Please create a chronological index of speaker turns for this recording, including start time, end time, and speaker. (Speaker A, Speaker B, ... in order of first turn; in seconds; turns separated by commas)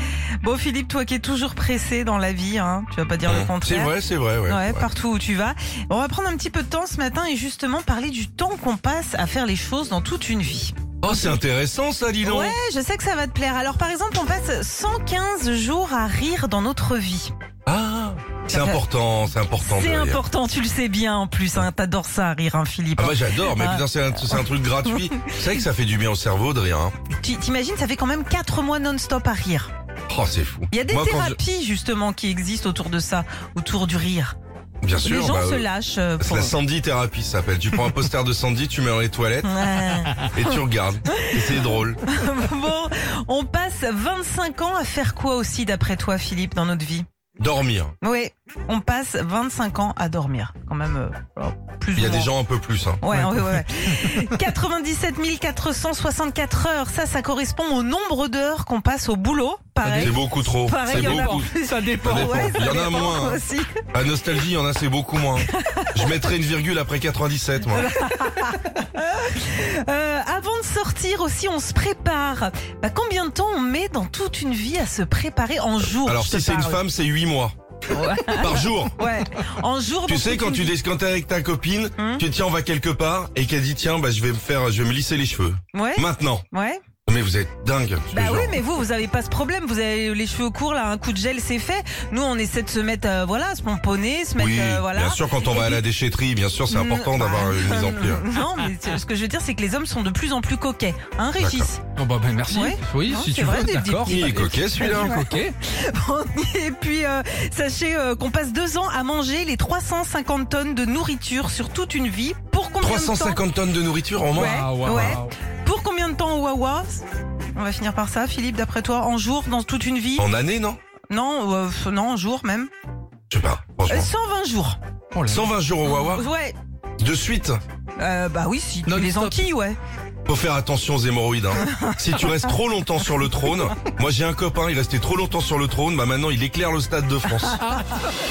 Speaker A: 0.4-3.9, Speaker B: 3.3-4.8, Speaker A: 4.5-11.3, Speaker B: 11.0-12.6, Speaker A: 12.2-17.3, Speaker B: 17.6-20.2, Speaker A: 18.5-18.8, Speaker A: 19.6-25.3, Speaker B: 23.0-26.9, Speaker A: 27.2-29.7, Speaker B: 30.1-31.4, Speaker A: 30.7-34.3, Speaker B: 34.8-42.0, Speaker A: 35.0-36.5, Speaker A: 39.4-47.0, Speaker B: 47.4-48.0, Speaker A: 48.0-52.3, Speaker B: 51.9-53.0, Speaker A: 53.0-63.8, Speaker C: 53.1-54.2, Speaker C: 59.8-62.7, Speaker B: 60.0-68.0, Speaker A: 65.5-66.2, Speaker A: 67.7-76.8, Speaker B: 75.9-79.1, Speaker A: 77.9-80.7, Speaker B: 80.1-86.4, Speaker A: 82.0-82.2, Speaker A: 85.7-86.8, Speaker B: 87.0-88.6, Speaker A: 88.1-95.8, Speaker B: 94.4-98.3, Speaker A: 96.7-101.8, Speaker B: 101.4-101.7, Speaker C: 102.0-105.5, Speaker A: 102.5-113.4, Speaker B: 104.0-105.2, Speaker B: 112.8-115.2, Speaker C: 114.3-115.3, Speaker A: 114.3-117.0, Speaker A: 117.5-120.2, Speaker B: 120.2-120.8, Speaker A: 121.1-122.7, Speaker B: 123.3-124.1, Speaker A: 123.9-124.8, Speaker C: 125.1-125.5, Speaker B: 125.3-126.2, Speaker A: 125.8-126.6, Speaker B: 127.0-127.6, Speaker A: 128.0-129.8, Speaker C: 128.9-129.4, Speaker B: 130.2-137.8, Speaker A: 131.7-131.9